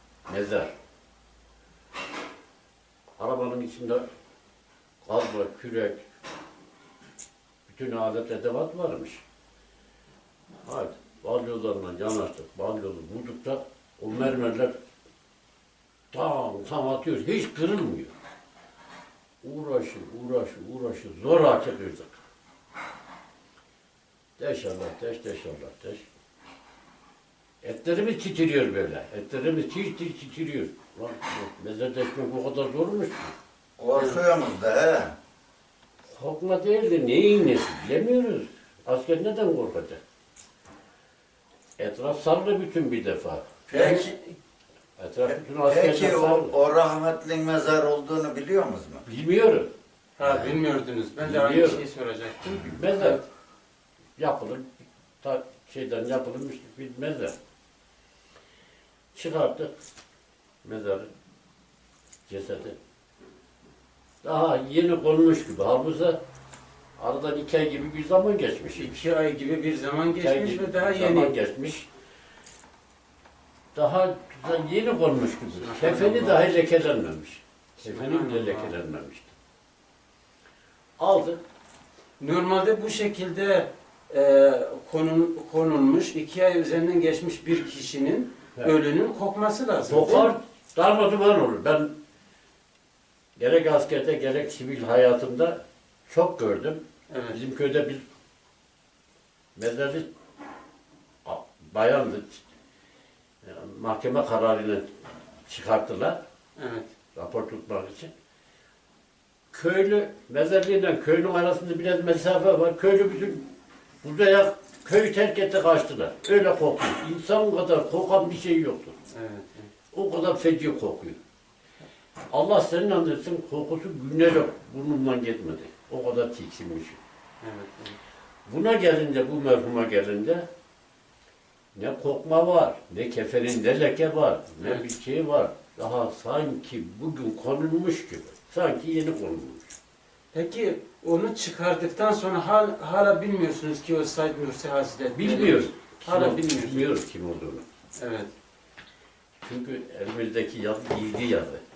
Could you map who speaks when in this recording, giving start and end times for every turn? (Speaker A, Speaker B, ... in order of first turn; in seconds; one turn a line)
Speaker A: 0.3-0.7
Speaker A: 3.2-4.0
Speaker A: 5.0-6.0
Speaker A: 7.7-9.2
Speaker A: 10.6-14.8
Speaker A: 16.1-18.1
Speaker A: 19.4-22.2
Speaker A: 24.4-26.0
Speaker A: 27.6-33.3
Speaker B: 33.8-35.1
Speaker A: 36.1-40.0
Speaker A: 41.8-43.5
Speaker B: 43.7-44.1
Speaker C: 43.7-44.2
Speaker A: 45.0-46.5
Speaker B: 45.3-49.0
Speaker A: 49.0-49.7
Speaker C: 50.2-53.2
Speaker A: 50.2-50.6
Speaker A: 51.2-51.8
Speaker A: 52.6-53.2
Speaker A: 54.2-57.3
Speaker A: 59.1-59.7
Speaker A: 60.6-61.1
Speaker A: 62.3-62.8
Speaker A: 64.2-66.2
Speaker A: 67.0-69.1
Speaker C: 68.8-71.3
Speaker A: 70.2-71.9
Speaker A: 73.7-79.3
Speaker C: 75.5-76.4
Speaker C: 77.8-78.8
Speaker A: 81.0-81.4
Speaker C: 82.2-90.3
Speaker A: 89.8-91.9
Speaker A: 93.4-98.0
Speaker C: 97.1-97.4
Speaker A: 99.5-100.1
Speaker A: 101.2-102.4
Speaker A: 103.4-104.9
Speaker A: 105.5-106.2
Speaker C: 106.5-106.9
Speaker A: 107.1-108.1
Speaker A: 109.5-113.5
Speaker A: 114.0-119.0
Speaker C: 119.1-119.7
Speaker A: 119.9-121.2
Speaker A: 122.3-127.0
Speaker C: 127.4-128.0
Speaker A: 128.5-130.5
Speaker A: 131.7-139.7
Speaker C: 140.3-146.9
Speaker A: 145.1-147.6
Speaker C: 148.0-148.3
Speaker A: 149.4-151.6